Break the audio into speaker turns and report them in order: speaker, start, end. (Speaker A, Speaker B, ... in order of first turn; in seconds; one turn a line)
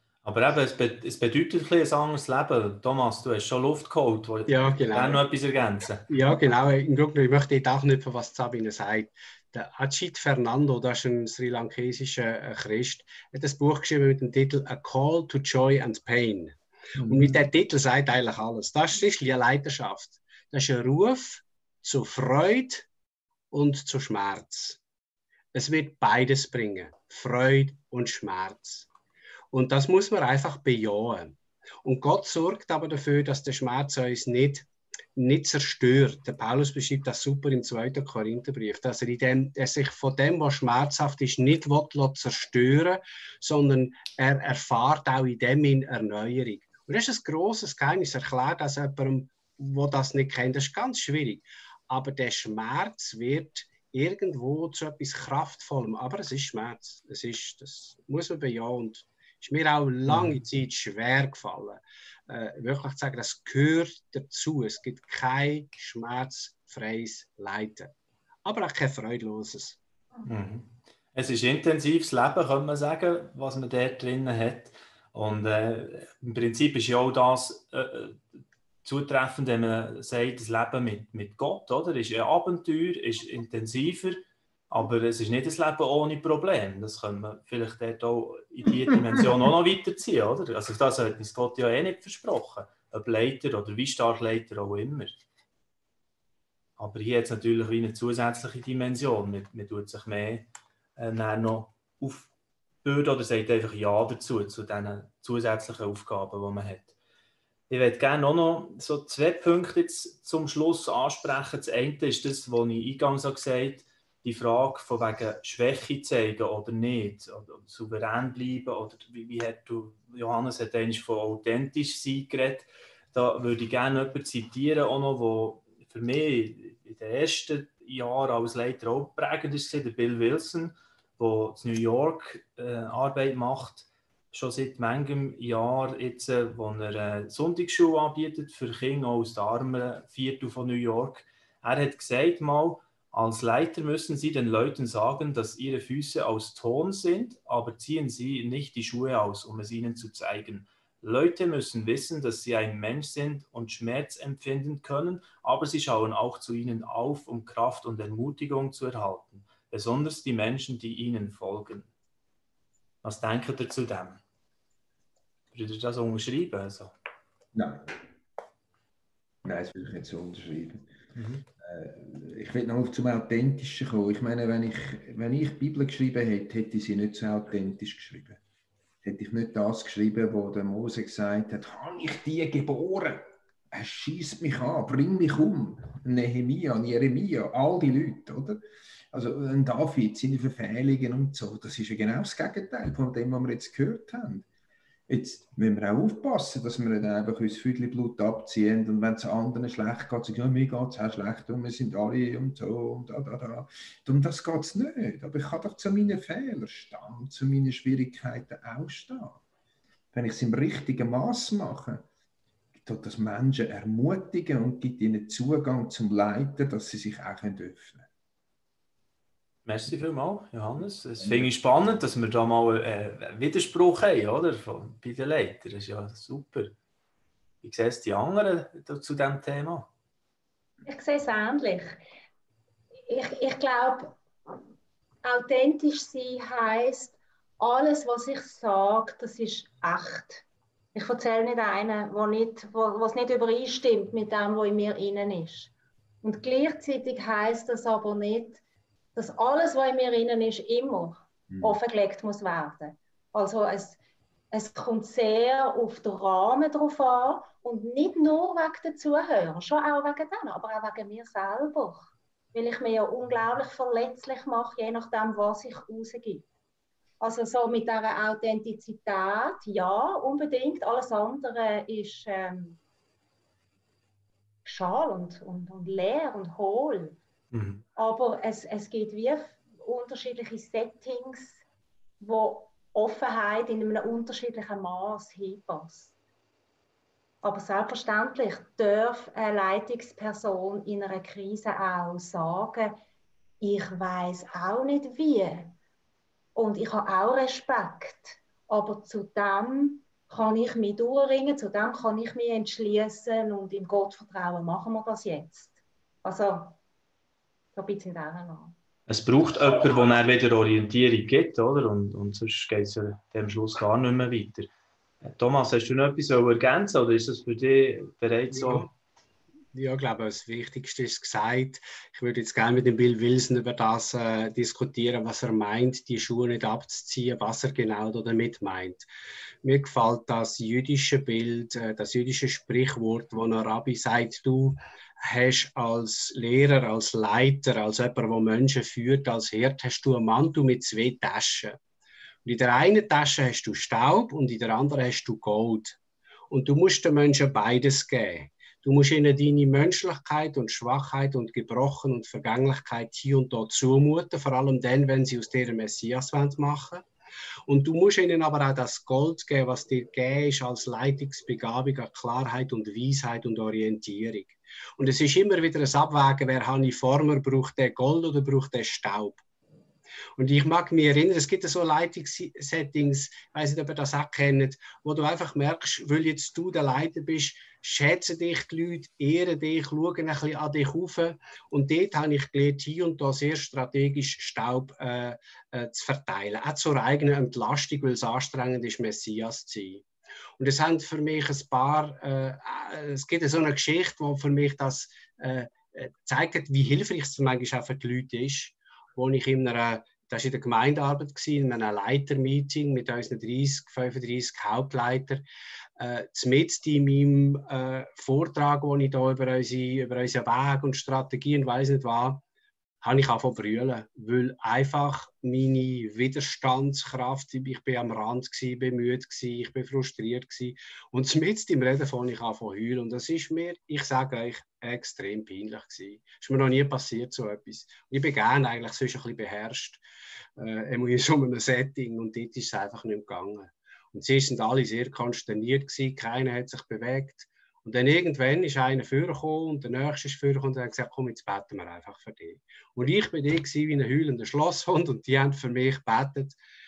Speaker A: 0.2-6.1
Speaker B: 4.5-5.2
Speaker B: 6.1-22.9
Speaker C: 17.0-17.4
Speaker B: 23.5-24.8
Speaker B: 25.5-28.9
Speaker B: 29.5-67.9
Speaker A: 60.1-60.4
Speaker B: 68.4-69.8
Speaker A: 70.2-95.2
Speaker A: 96.8-102.3
Speaker A: 102.8-106.9
Speaker A: 107.7-161.9
Speaker A: 163.0-164.2
Speaker A: 165.5-166.9
Speaker C: 167.5-167.9
Speaker C: 169.4-170.8
Speaker A: 171.1-171.4
Speaker C: 171.6-178.4
Speaker C: 179.0-188.6
Speaker C: 189.1-194.4
Speaker C: 195.1-209.4
Speaker C: 210.1-212.0
Speaker C: 212.8-218.1
Speaker A: 219.6-226.7
Speaker C: 221.2-221.5
Speaker A: 227.6-229.9
Speaker D: 230.8-231.9
Speaker D: 233.1-234.2
Speaker D: 235.2-240.4
Speaker D: 240.9-245.7
Speaker D: 246.2-248.6
Speaker D: 249.1-254.0
Speaker C: 251.5-251.8
Speaker D: 254.5-266.4
Speaker D: 267.2-272.8
Speaker D: 274.6-277.2
Speaker A: 277.5-277.8
Speaker D: 277.9-281.6
Speaker D: 282.2-286.1
Speaker D: 287.4-292.9
Speaker D: 293.6-295.7
Speaker D: 296.5-306.8
Speaker D: 307.7-308.7
Speaker A: 309.1-314.7
Speaker A: 315.2-318.9
Speaker B: 318.5-318.9
Speaker B: 319.7-329.1
Speaker B: 329.6-341.8
Speaker B: 342.4-346.0
Speaker B: 346.5-357.1
Speaker B: 357.7-369.4
Speaker B: 370.4-390.1
Speaker B: 390.6-405.4
Speaker B: 406.0-412.4
Speaker B: 413.0-430.0
Speaker B: 430.6-446.6